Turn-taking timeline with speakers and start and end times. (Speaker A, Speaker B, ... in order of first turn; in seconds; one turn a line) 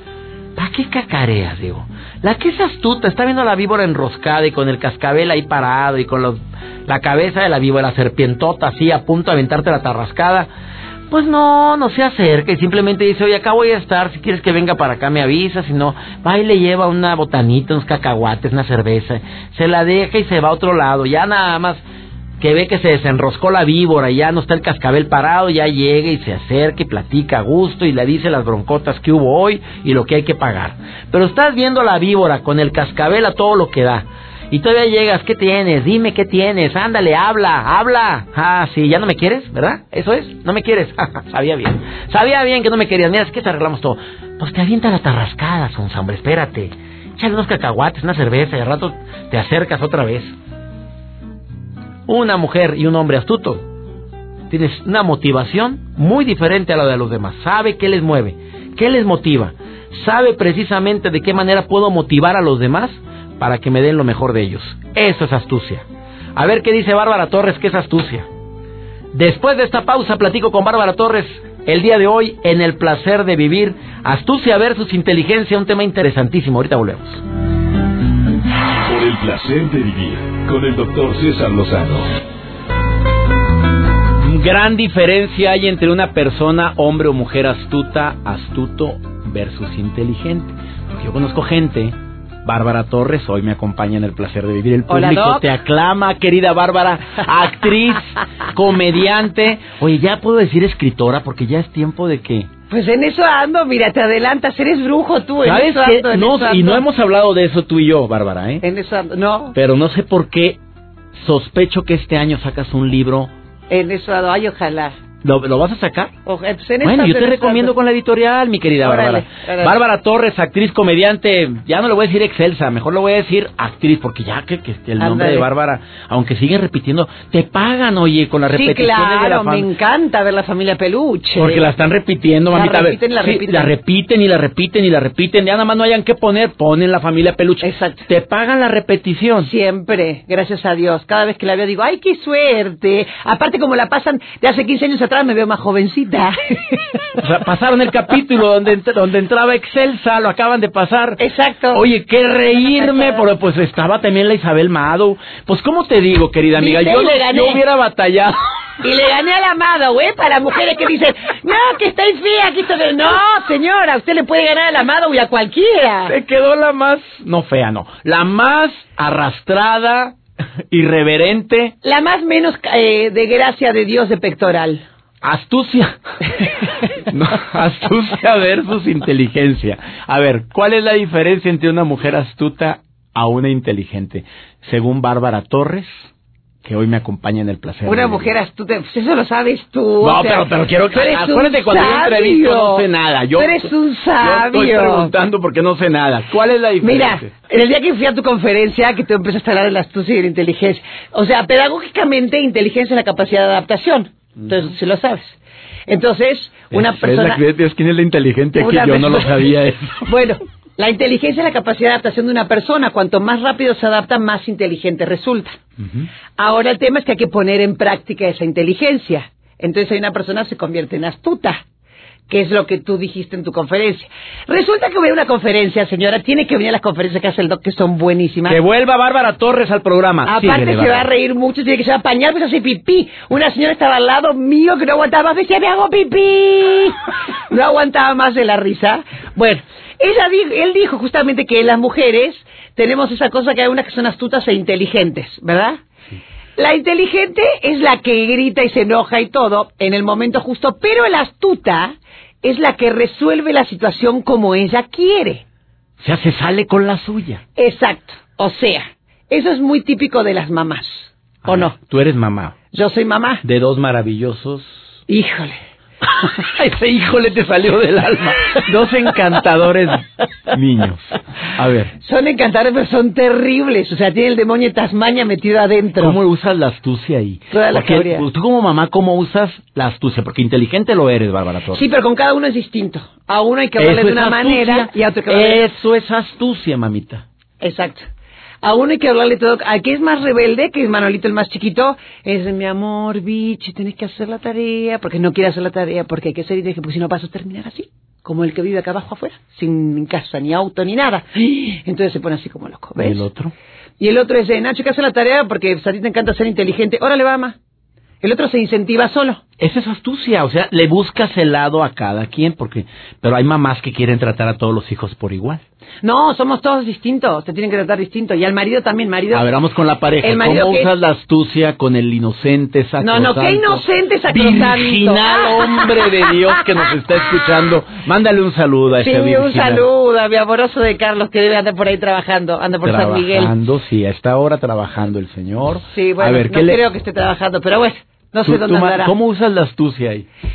Speaker A: 0.6-10.5
Speaker A: 11.1-21.8
Speaker A: 22.4-50.4
Speaker A: 52.1-53.6
Speaker A: 54.5-68.3
Speaker A: 69.1-77.2
Speaker B: 78.8-82.1
Speaker A: 84.2-102.5
Speaker C: 94.9-95.5
Speaker C: 102.7-106.8
Speaker A: 105.5-108.6
Speaker C: 108.6-109.6
Speaker A: 109.5-110.6
Speaker A: 111.1-113.3
Speaker C: 113.7-115.0
Speaker A: 115.2-116.1
Speaker C: 116.3-117.7
Speaker A: 116.8-129.7
Speaker C: 118.8-119.8
Speaker C: 125.0-125.5
Speaker C: 128.5-131.7
Speaker A: 131.4-139.5
Speaker C: 132.5-133.7
Speaker C: 137.6-138.1
Speaker C: 139.4-147.0
Speaker A: 147.2-151.2
Speaker C: 151.2-151.8
Speaker A: 151.7-158.4
Speaker C: 156.6-157.6
Speaker C: 158.8-166.2
Speaker A: 166.1-170.2
Speaker A: 170.7-171.7
Speaker C: 171.8-174.8
Speaker A: 175.2-186.1
Speaker A: 186.6-188.3
Speaker C: 187.8-192.9
Speaker A: 190.0-197.3
Speaker C: 193.4-195.1
Speaker C: 196.8-207.4
Speaker A: 206.7-210.1
Speaker C: 208.6-209.5
Speaker C: 210.1-215.6
Speaker C: 216.4-221.6
Speaker C: 222.3-228.6
Speaker A: 228.5-231.1
Speaker C: 230.3-245.8
Speaker C: 246.6-255.4
Speaker A: 256.0-257.4
Speaker C: 257.6-261.8
Speaker A: 261.4-262.6
Speaker C: 262.7-263.4
Speaker A: 263.4-265.0
Speaker C: 265.1-265.6
Speaker A: 266.0-271.9
Speaker C: 272.0-276.2
Speaker A: 276.0-281.8
Speaker C: 277.5-278.3
Speaker C: 281.7-285.8
Speaker A: 283.8-287.2
Speaker C: 287.6-288.1
Speaker C: 288.6-303.3
Speaker A: 303.0-303.5
Speaker C: 304.0-307.6
Speaker C: 308.2-309.4
Speaker A: 309.6-315.6
Speaker C: 316.0-319.5
Speaker A: 319.3-329.9
Speaker C: 320.2-320.9
Speaker C: 323.0-326.1
Speaker C: 329.0-333.5
Speaker A: 332.8-336.8
Speaker C: 335.9-339.1
Speaker A: 338.4-340.3